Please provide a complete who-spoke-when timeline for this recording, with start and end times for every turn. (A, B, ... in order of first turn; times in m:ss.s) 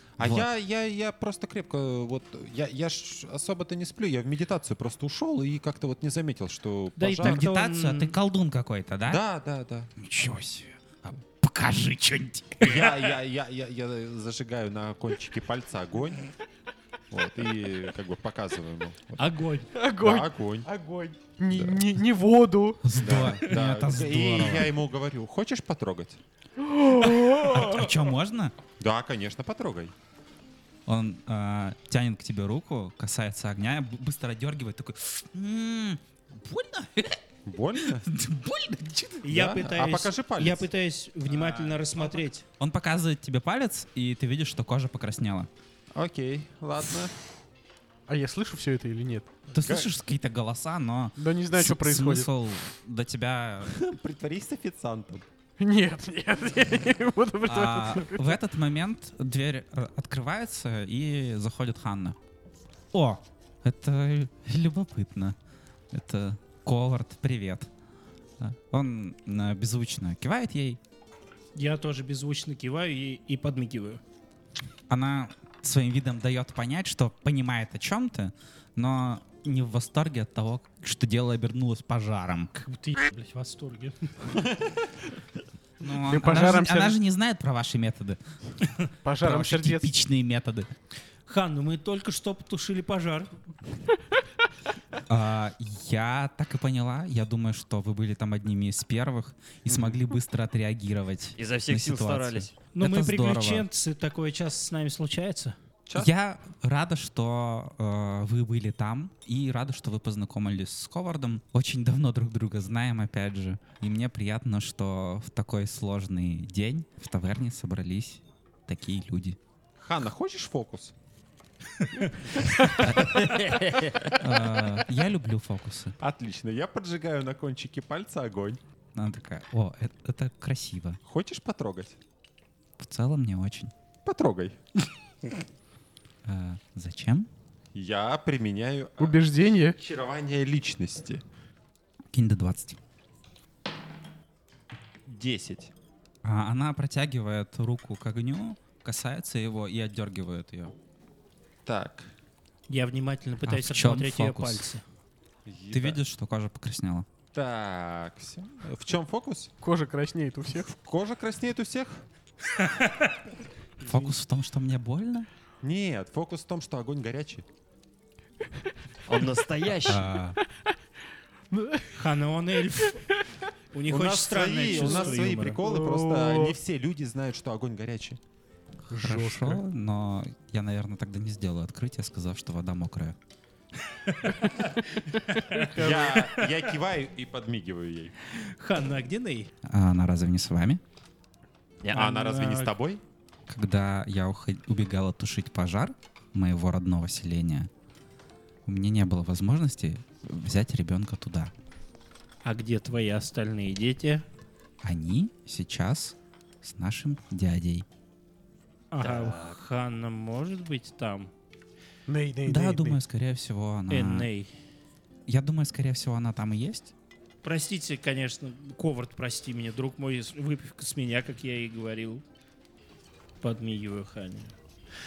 0:00.2-0:07.4 A
0:00.2-0:00.5 B
0:07.0-0:08.1 C
0:07.2-0:09.2 B
0:09.1-0:09.9 A
0:10.0-0:13.0 B
0:12.6-0:16.2 A
0:17.1-0:19.3 A
0:19.2-0:19.7 C
0:19.7-0:22.8 D
0:20.0-0:20.7 A
0:21.5-0:21.8 A
0:22.8-0:24.7 B
0:23.0-0:26.2 A
0:26.6-0:27.9 D
0:27.1-0:28.5 B
0:28.8-0:29.9 A
0:30.9-0:37.2 B
0:37.4-0:38.1 A
0:37.8-0:39.2 B
0:39.2-0:42.4 C
0:39.2-0:40.7 A
0:41.3-0:45.5 B
0:45.9-0:47.1 A
0:48.1-0:49.4 D
0:49.5-0:53.8 B
0:49.6-0:49.9 A
0:51.2-0:52.3 D
0:53.6-0:55.2 A
0:55.6-0:58.3 D
0:57.4-1:02.2 B
1:02.9-1:05.4 B
1:05.9-1:07.7 B
1:08.4-1:10.8 B
1:11.6-1:14.0 C
1:14.9-1:22.5 B
1:22.6-1:24.1 C
1:24.4-1:24.7 A
1:25.8-1:28.2 B
1:25.9-1:27.0 D
1:29.0-1:29.9 D
1:29.2-1:30.7 B
1:31.2-1:33.3 C
1:35.1-1:43.7 B
1:39.7-1:40.0 A
1:41.4-1:42.5 E
1:42.7-1:45.5 C
1:45.9-1:46.1 A
1:46.0-1:59.4 B
1:59.8-2:00.9 A
2:02.8-2:04.1 A
2:02.8-2:03.3 B
2:04.2-2:06.0 B
2:06.0-2:08.6 A
2:08.9-2:11.0 B
2:11.0-2:12.0 A
2:12.8-2:13.7 B
2:14.0-2:14.6 A
2:16.2-2:17.3 B
2:17.7-2:21.2 A
2:19.0-2:19.8 D
2:22.1-2:22.8 B
2:25.0-2:25.7 A
2:26.2-2:30.7 B
2:31.6-2:32.1 A
2:32.7-2:34.8 C
2:33.5-2:34.6 B
2:35.4-2:36.0 A
2:35.7-2:37.0 B
2:37.3-2:39.5 A
2:39.6-2:40.6 D
2:40.6-2:42.0 A
2:42.5-2:43.2 C
2:43.8-2:44.1 C
2:43.8-2:45.3 B
2:45.6-2:47.4 A
2:49.1-2:50.1 E
2:49.8-2:50.4 B
2:51.5-2:51.9 D
2:51.9-2:53.0 C
2:53.7-2:55.6 C
2:53.9-2:58.2 A
2:54.7-2:56.6 D
2:58.9-3:03.2 B
2:58.9-2:59.6 D
3:03.9-3:05.7 C
3:05.6-3:06.3 D
3:05.8-3:08.1 A
3:08.4-3:09.5 C
3:09.6-3:10.8 B
3:11.9-3:13.0 A
3:11.9-3:12.7 C
3:13.5-3:17.7 B
3:18.6-3:21.5 B
3:22.4-3:24.2 C
3:24.8-3:27.8 B
3:28.9-3:31.3 C
3:29.0-3:29.6 E
3:32.1-3:33.0 D
3:32.4-3:34.3 B
3:33.9-3:34.5 C
3:35.3-3:36.9 B
3:37.4-3:42.2 C
3:43.4-3:44.5 C